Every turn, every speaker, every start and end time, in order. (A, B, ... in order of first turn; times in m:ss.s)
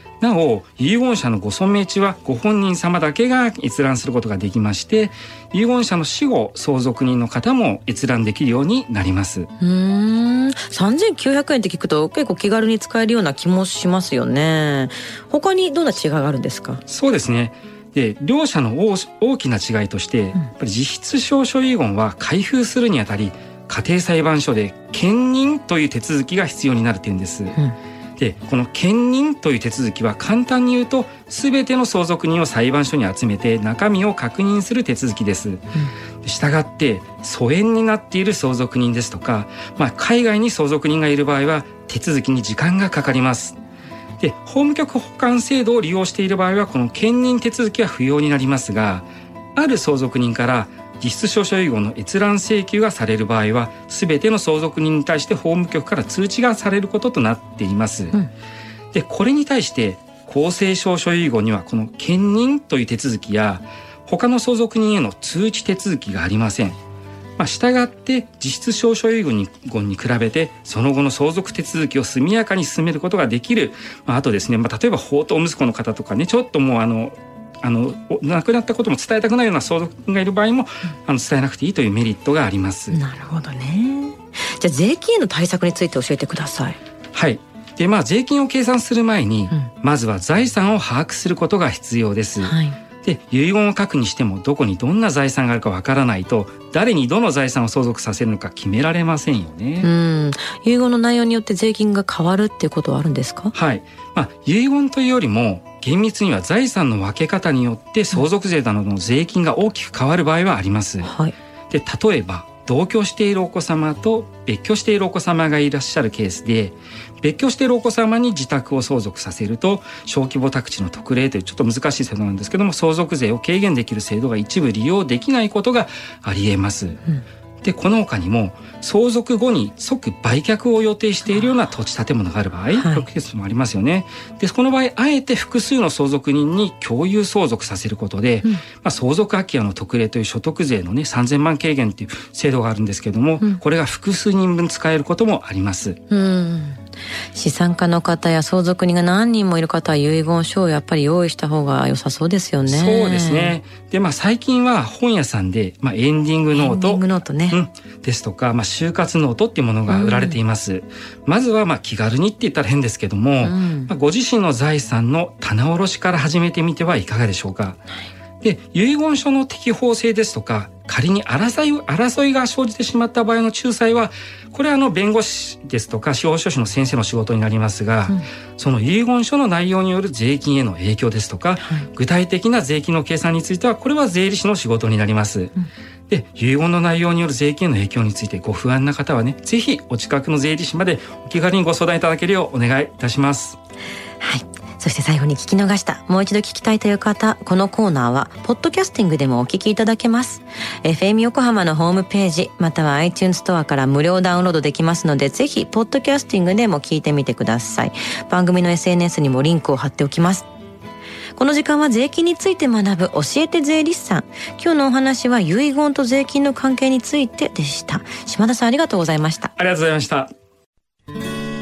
0:00.2-0:09.5 A
0:09.6-0:16.8 B
0:16.9-0:27.6 A
0:28.2-0:35.7 A
0:36.2-0:43.6 A
0:44.2-0:58.2 A
0:58.9-1:06.8 A
1:07.4-1:23.0 A
1:22.9-1:26.8 B
1:27.1-1:39.9 A
1:32.4-1:32.8 B
1:39.8-1:43.5 B
1:43.5-1:51.1 A
1:51.0-1:51.3 B
1:51.7-2:07.0 A
2:07.6-2:26.0 A
2:12.7-2:13.0 B
2:26.1-2:26.8 B
2:27.3-2:33.6 B
2:32.6-2:47.8 A
2:36.5-2:37.6 B
2:39.9-2:40.4 B
2:43.4-2:43.9 B
2:48.4-3:05.5 A
3:01.6-3:01.9 B
3:06.1-3:13.6 A
3:14.2-3:30.5 B
3:31.3-3:39.5 B
3:39.6-3:40.3 A